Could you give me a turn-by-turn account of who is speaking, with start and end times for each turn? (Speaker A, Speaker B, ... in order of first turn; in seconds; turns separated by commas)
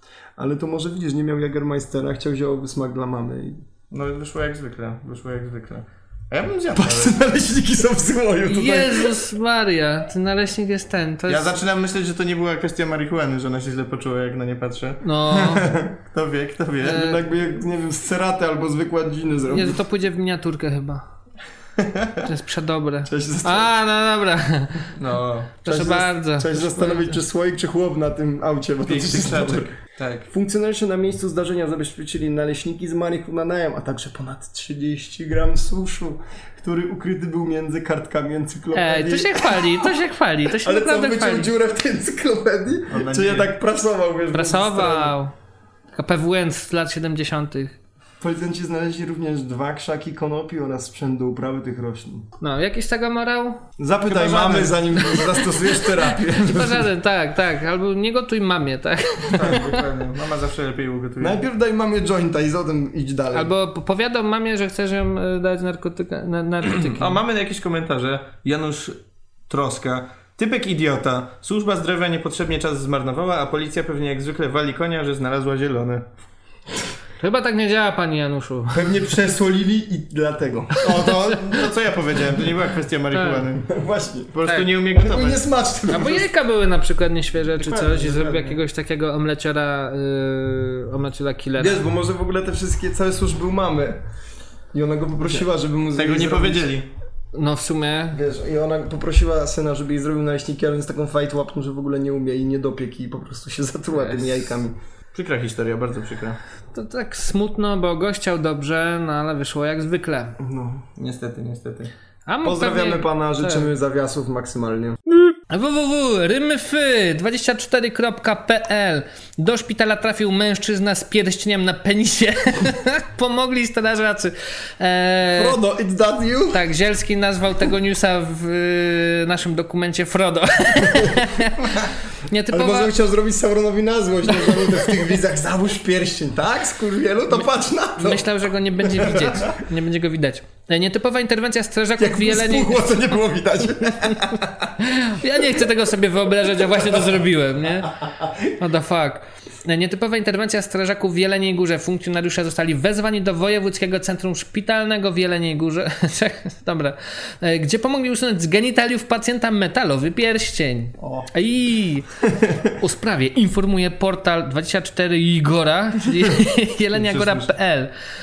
Speaker A: 0.4-3.6, Speaker B: 3.9-7.2, Speaker A: 6.7-9.2, Speaker C: 8.4-11.5, Speaker B: 11.3-15.0, Speaker C: 15.0-15.7, Speaker A: 15.5-15.9, Speaker B: 16.1-17.1, Speaker C: 16.8-17.2, Speaker A: 16.8-19.8, Speaker C: 19.5-21.0, Speaker C: 22.2-24.9, Speaker A: 23.0-23.7, Speaker B: 24.9-25.5, Speaker C: 25.6-27.1, Speaker A: 25.6-29.7, Speaker B: 28.8-30.3, Speaker A: 30.3-39.9, Speaker C: 38.7-41.5, Speaker A: 40.5-45.1, Speaker B: 42.9-43.5, Speaker C: 44.3-45.3, Speaker C: 45.9-47.7, Speaker A: 48.2-52.2, Speaker C: 52.4-53.6, Speaker A: 53.8-56.9, Speaker B: 54.1-54.8, Speaker C: 54.3-55.2, Speaker C: 56.3-59.6, Speaker B: 59.3-61.4, Speaker A: 61.2-63.5, Speaker C: 63.3-67.2, Speaker B: 66.7-69.0, Speaker B: 69.5-76.0, Speaker C: 77.2-78.9, Speaker A: 78.7-81.1, Speaker B: 80.8-83.7, Speaker C: 83.1-83.5, Speaker A: 83.6-84.3, Speaker B: 84.3-85.4, Speaker A: 84.8-86.3, Speaker C: 85.9-91.8, Speaker A: 87.6-88.5, Speaker A: 91.6-94.0, Speaker A: 94.7-96.7, Speaker B: 95.9-96.9, Speaker C: 97.3-98.2, Speaker A: 98.1-104.8, Speaker B: 105.1-106.4, Speaker C: 106.7-110.3, Speaker A: 110.4-110.8, Speaker B: 111.0-111.9, Speaker C: 112.3-113.7, Speaker A: 112.4-115.0, Speaker C: 115.5-125.6, Speaker A: 125.3-126.6, Speaker C: 126.5-132.9, Speaker A: 132.5-138.2, Speaker C: 138.0-142.8, Speaker A: 138.9-139.3, Speaker A: 142.0-144.2, Speaker C: 144.8-147.9, Speaker C: 148.6-162.1, Speaker B: 161.0-161.3, Speaker C: 162.6-167.9, Speaker B: 167.0-167.5